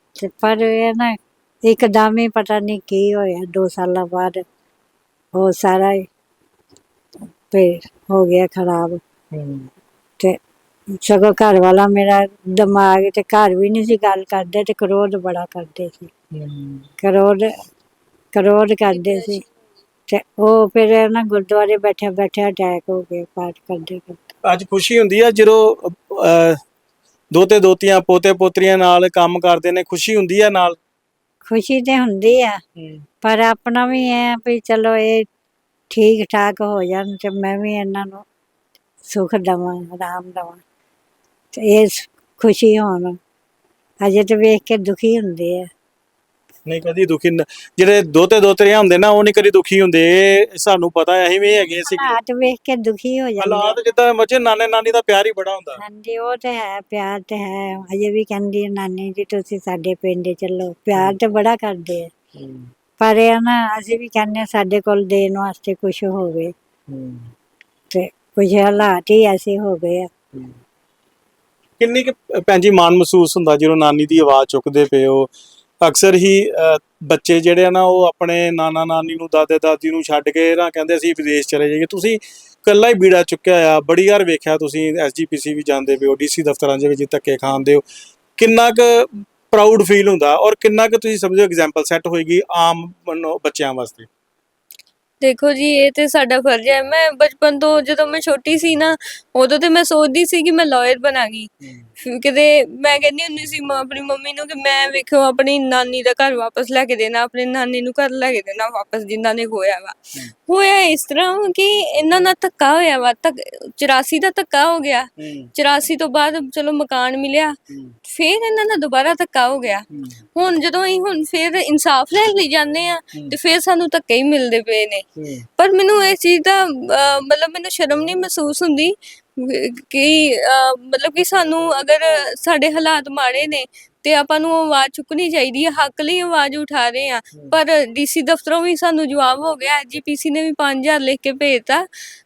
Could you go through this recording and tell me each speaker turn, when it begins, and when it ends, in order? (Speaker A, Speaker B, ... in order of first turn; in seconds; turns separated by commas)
Speaker A: 0.2-4.5, Speaker A: 5.4-6.1, Speaker A: 7.5-9.0, Speaker B: 9.3-9.7, Speaker A: 10.9-16.1, Speaker B: 16.3-16.9, Speaker A: 17.0-17.5, Speaker A: 18.3-19.4, Speaker A: 20.1-24.2, Speaker B: 24.4-26.6, Speaker B: 27.3-30.8, Speaker A: 31.5-32.6, Speaker B: 32.8-33.1, Speaker A: 33.2-35.3, Speaker A: 35.9-38.2, Speaker A: 39.0-40.6, Speaker A: 41.5-43.2, Speaker A: 44.0-45.7, Speaker B: 46.7-52.2, Speaker A: 51.8-53.8, Speaker B: 53.4-55.8, Speaker A: 55.8-62.1, Speaker B: 62.4-62.7, Speaker A: 63.0-66.5, Speaker B: 66.9-67.3, Speaker A: 67.9-70.1, Speaker B: 70.3-70.6, Speaker B: 71.8-75.3, Speaker B: 75.8-87.8, Speaker B: 88.4-94.1, Speaker C: 95.2-101.5, Speaker B: 101.6-101.9, Speaker C: 102.0-125.0, Speaker B: 115.2-115.5, Speaker B: 117.7-118.0, Speaker B: 119.9-120.2, Speaker B: 125.2-125.5, Speaker C: 125.6-141.9